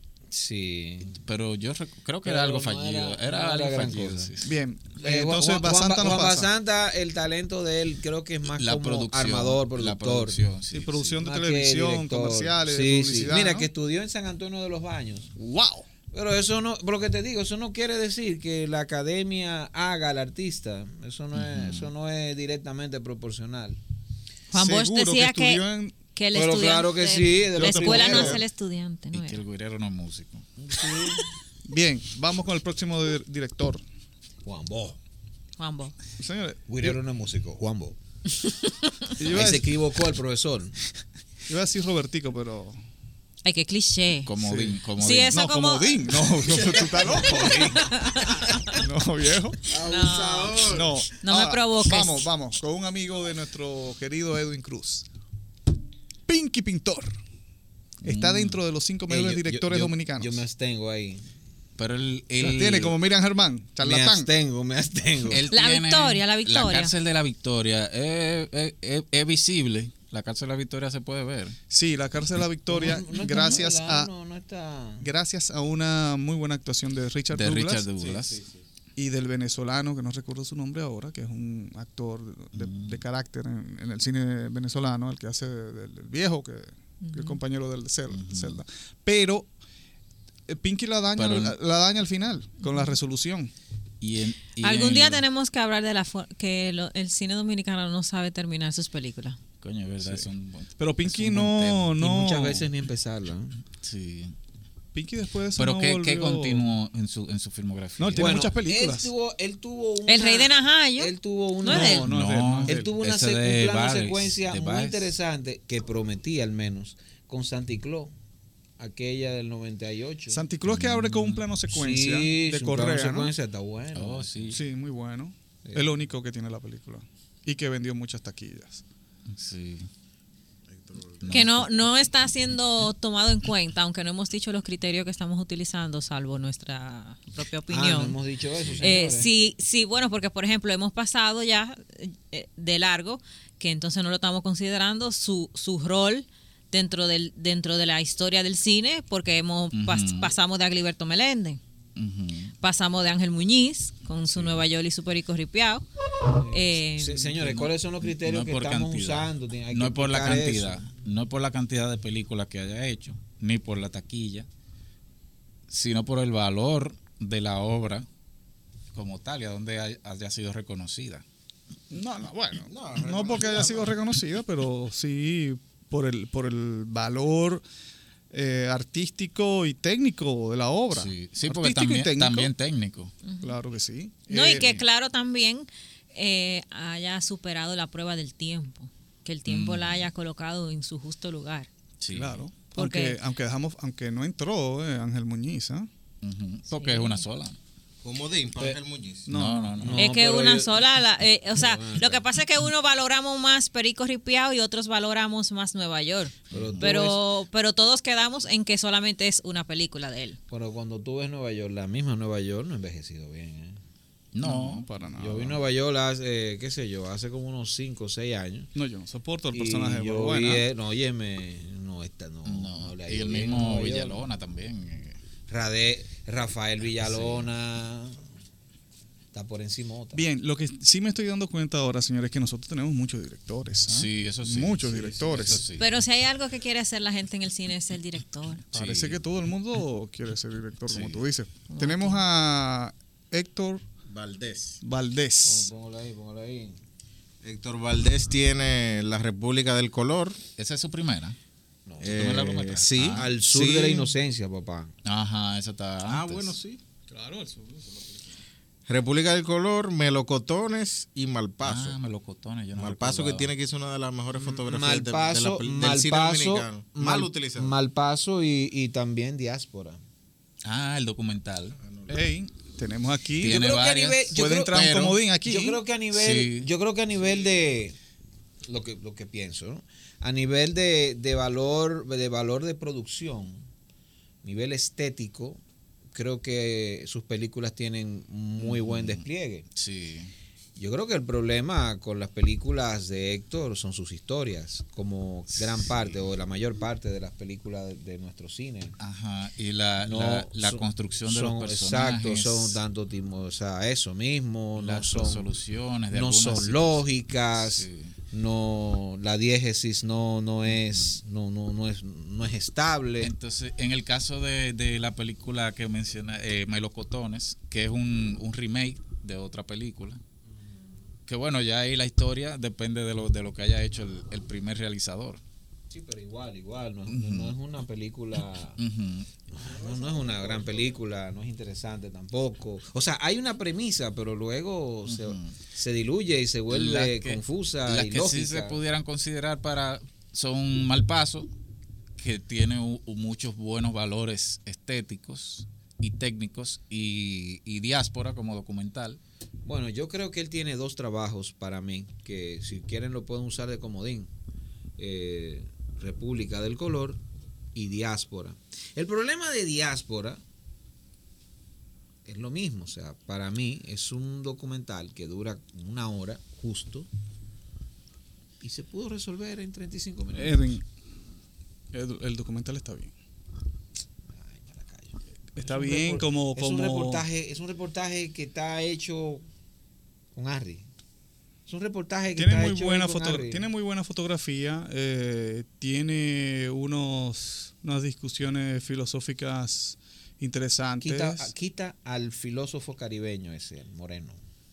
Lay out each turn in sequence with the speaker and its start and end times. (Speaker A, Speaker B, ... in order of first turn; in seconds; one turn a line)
Speaker A: 0.3-1.2
Speaker B: 1.1-4.5
Speaker A: 2.2-4.3
Speaker C: 4.4-6.5
Speaker A: 5.0-10.4
Speaker B: 8.5-11.2
Speaker C: 10.7-13.7
Speaker A: 11.2-15.3
Speaker C: 15.3-15.9
Speaker A: 16.1-23.8
Speaker B: 21.3-21.9
Speaker D: 24.5-25.6
Speaker C: 24.5-26.0
Speaker D: 26.1-29.4
Speaker A: 26.3-28.4
Speaker C: 27.6-28.4
Speaker B: 29.1-30.5
Speaker A: 30.6-31.2
Speaker C: 31.6-33.8
Speaker A: 34.4-35.0
Speaker D: 35.6-35.9
Speaker C: 36.2-37.0
Speaker A: 36.7-38.0
Speaker C: 39.2-39.8
Speaker A: 39.2-40.8
Speaker C: 41.5-42.8
Speaker D: 43.4-44.3
Speaker B: 44.2-45.4
Speaker C: 44.4-44.8
Speaker D: 45.0-46.0
Speaker C: 45.3-47.8
Speaker A: 47.0-48.0
Speaker D: 47.5-48.8
Speaker C: 48.7-49.6
Speaker E: 49.7-50.9
Speaker D: 49.8-50.6
Speaker C: 50.6-55.0
Speaker D: 51.2-52.2
Speaker C: 56.3-57.1
Speaker B: 58.0-58.6
Speaker C: 58.0-60.4
Speaker A: 59.1-61.2
Speaker B: 61.8-62.9
Speaker C: 62.4-64.3
Speaker A: 63.8-65.4
Speaker B: 65.3-71.5
Speaker D: 65.5-66.9
Speaker C: 71.7-74.1
Speaker A: 72.7-75.1
Speaker C: 75.0-77.8
Speaker B: 77.3-78.4
Speaker E: 78.0-78.6
Speaker C: 79.0-89.5
Speaker B: 82.5-83.0
Speaker D: 87.0-87.4
Speaker B: 88.1-88.6
Speaker C: 90.5-93.5
Speaker B: 91.2-91.5
Speaker D: 92.7-92.9
Speaker B: 94.0-95.2
Speaker D: 94.6-99.4
Speaker B: 99.6-102.0
Speaker C: 100.0-102.7
Speaker A: 102.0-103.6
Speaker B: 103.8-104.3
Speaker C: 104.9-106.7
Speaker B: 105.6-108.5
Speaker C: 108.0-109.1
Speaker A: 108.2-112.1
Speaker D: 110.1-111.1
Speaker D: 111.6-112.1
Speaker C: 111.7-112.9
Speaker B: 112.0-115.1
Speaker A: 112.7-118.1
Speaker A: 118.8-120.4
Speaker C: 120.3-123.3
Speaker B: 120.7-121.4
Speaker A: 121.7-124.6
Speaker B: 123.9-124.6
Speaker C: 124.5-128.8
Speaker A: 125.6-125.9
Speaker B: 129.3-129.9
Speaker E: 130.7-131.4
Speaker B: 131.2-131.9
Speaker D: 131.3-138.2
Speaker A: 137.7-139.3
Speaker B: 138.6-138.9
Speaker D: 138.8-151.6
Speaker B: 149.7-150.3
Speaker B: 151.9-152.5
Speaker D: 152.6-155.8
Speaker B: 154.3-154.6
Speaker A: 156.3-160.8
Speaker D: 156.5-157.4
Speaker B: 157.4-164.5
Speaker B: 165.7-168.1
Speaker B: 168.9-171.2
Speaker C: 171.9-177.6
Speaker E: 172.6-173.9
Speaker C: 178.3-182.5
Speaker B: 180.9-183.1
Speaker D: 183.2-183.5
Speaker C: 183.4-184.8
Speaker D: 184.3-191.7
Speaker B: 184.5-184.8
Speaker B: 189.4-190.1
Speaker B: 192.0-192.4
Speaker C: 192.1-195.9
Speaker D: 192.7-193.2
Speaker B: 196.2-197.6
Speaker D: 196.7-197.2
Speaker E: 198.0-199.3
Speaker C: 199.2-199.9
Speaker B: 199.3-200.1
Speaker A: 199.8-200.8
Speaker D: 200.0-210.4
Speaker A: 201.5-202.2
Speaker B: 206.5-206.8
Speaker A: 206.5-207.2
Speaker A: 210.5-213.8
Speaker B: 214.3-214.8
Speaker C: 214.4-215.6
Speaker A: 215.2-218.7
Speaker C: 218.7-220.7
Speaker A: 219.5-224.2
Speaker B: 222.4-225.2
Speaker A: 225.5-228.2
Speaker B: 227.0-227.5
Speaker A: 229.3-230.2
Speaker C: 230.1-235.6
Speaker B: 233.9-235.9
Speaker D: 235.8-238.6
Speaker B: 238.7-239.2
Speaker C: 238.7-243.8
Speaker B: 240.9-241.2
Speaker D: 241.7-242.2
Speaker E: 244.1-244.8
Speaker C: 244.8-245.7
Speaker A: 245.4-246.8
Speaker E: 247.4-250.4
Speaker B: 250.6-251.4
Speaker A: 251.9-252.4
Speaker E: 252.0-254.1
Speaker B: 252.0-253.3
Speaker A: 253.1-254.9
Speaker B: 255.0-256.5
Speaker E: 256.1-256.8
Speaker C: 257.1-258.4
Speaker E: 258.9-262.0
Speaker B: 261.6-263.5
Speaker E: 262.8-267.7
Speaker A: 264.4-270.0
Speaker B: 270.6-271.8
Speaker E: 271.8-272.2
Speaker C: 272.1-273.6
Speaker B: 273.4-275.2
Speaker A: 273.4-274.8
Speaker C: 274.3-275.8
Speaker A: 275.4-277.9
Speaker B: 276.1-276.7
Speaker A: 278.6-283.6
Speaker A: 284.4-285.6
Speaker A: 286.1-289.6
Speaker B: 288.6-289.2
Speaker B: 289.7-290.3
Speaker A: 290.8-298.9
Speaker B: 295.5-296.2
Speaker B: 299.0-302.8
Speaker A: 300.0-305.5
Speaker B: 304.8-307.0
Speaker A: 306.1-313.3
Speaker B: 307.6-308.1
Speaker B: 310.7-311.2
Speaker B: 313.2-320.2
Speaker B: 321.3-325.4
Speaker A: 325.9-328.8
Speaker B: 327.1-327.5
Speaker B: 328.8-329.3
Speaker A: 329.5-338.8
Speaker E: 329.6-330.9
Speaker B: 335.1-335.6
Speaker B: 336.7-341.5
Speaker B: 342.2-349.2
Speaker A: 349.6-354.3
Speaker A: 355.0-357.2
Speaker A: 357.7-360.4
Speaker A: 362.2-367.1
Speaker A: 368.6-370.6
Speaker C: 370.3-370.8
Speaker C: 371.9-373.1
Speaker A: 374.3-379.4
Speaker C: 375.5-377.2
Speaker A: 380.3-380.9
Speaker A: 381.7-383.6
Speaker C: 382.4-391.5
Speaker A: 391.0-394.4